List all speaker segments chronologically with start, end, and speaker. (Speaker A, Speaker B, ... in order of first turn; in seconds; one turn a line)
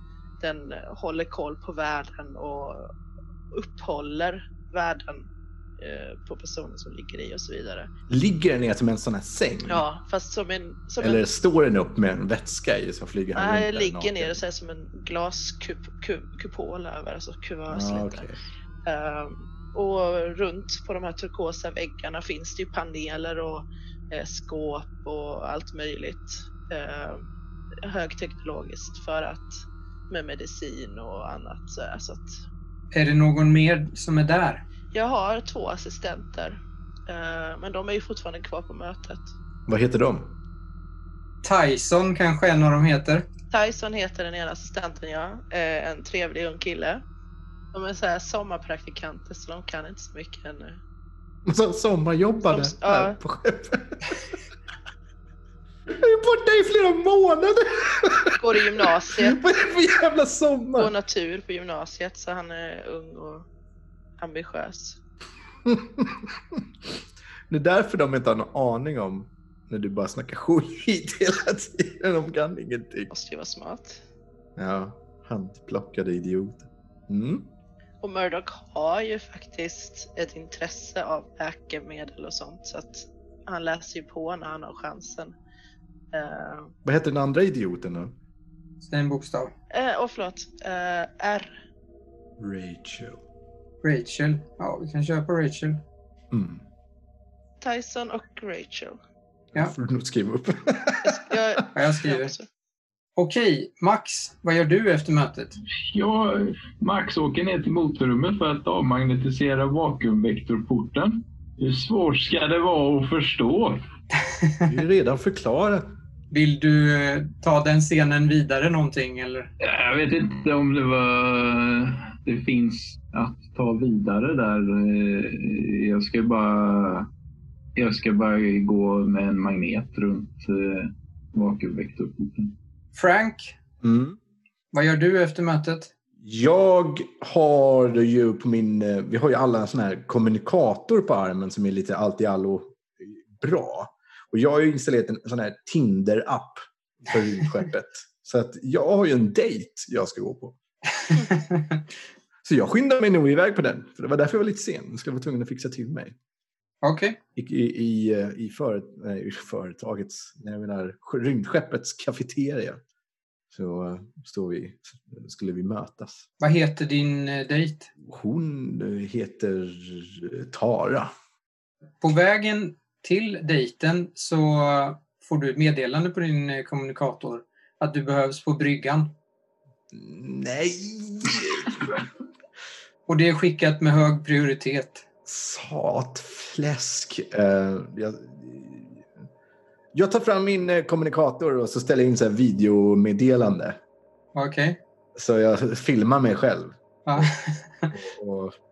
Speaker A: 0.4-2.9
Speaker A: 3.5-5.3
Speaker A: 5.8-7.9
Speaker B: 8.1-9.8
Speaker A: 9.7-11.2
Speaker B: 11.0-14.4
Speaker A: 13.3-18.3
Speaker B: 17.7-18.4
Speaker A: 18.9-27.2
Speaker A: 27.8-32.4
Speaker C: 32.9-34.6
Speaker A: 34.9-39.3
Speaker B: 39.7-40.4
Speaker C: 41.4-43.3
Speaker A: 43.5-47.0
Speaker A: 47.7-50.8
Speaker B: 51.5-54.2
Speaker A: 52.5-53.2
Speaker B: 55.9-58.4
Speaker A: 58.4-59.4
Speaker B: 59.1-60.9
Speaker A: 60.8-63.5
Speaker A: 64.2-65.0
Speaker B: 65.7-66.2
Speaker B: 67.5-73.1
Speaker A: 73.1-74.0
Speaker B: 74.6-77.5
Speaker A: 78.0-85.3
Speaker A: 86.1-86.7
Speaker B: 86.8-88.1
Speaker C: 88.8-89.5
Speaker A: 89.7-91.5
Speaker B: 92.4-93.2
Speaker C: 93.8-95.8
Speaker B: 96.3-96.6
Speaker A: 97.6-99.0
Speaker B: 99.5-101.4
Speaker A: 101.0-102.5
Speaker C: 101.7-102.3
Speaker C: 103.2-105.6
Speaker D: 105.9-113.8
Speaker B: 114.6-116.0
Speaker C: 116.3-119.5
Speaker D: 119.6-127.1
Speaker D: 127.8-132.5
Speaker C: 132.9-133.6
Speaker B: 133.8-134.2
Speaker C: 134.7-135.9
Speaker B: 136.2-150.6
Speaker C: 151.1-151.8
Speaker B: 152.4-156.2
Speaker C: 156.8-157.2
Speaker B: 157.4-162.8
Speaker B: 163.5-166.3
Speaker C: 166.4-167.9
Speaker B: 168.1-171.1
Speaker C: 172.0-179.1
Speaker B: 179.9-181.8
Speaker C: 183.1-185.1
Speaker B: 185.3-189.1
Speaker B: 189.9-193.8
Speaker C: 194.3-194.8
Speaker B: 195.2-197.3
Speaker C: 197.1-197.9
Speaker B: 197.9-198.6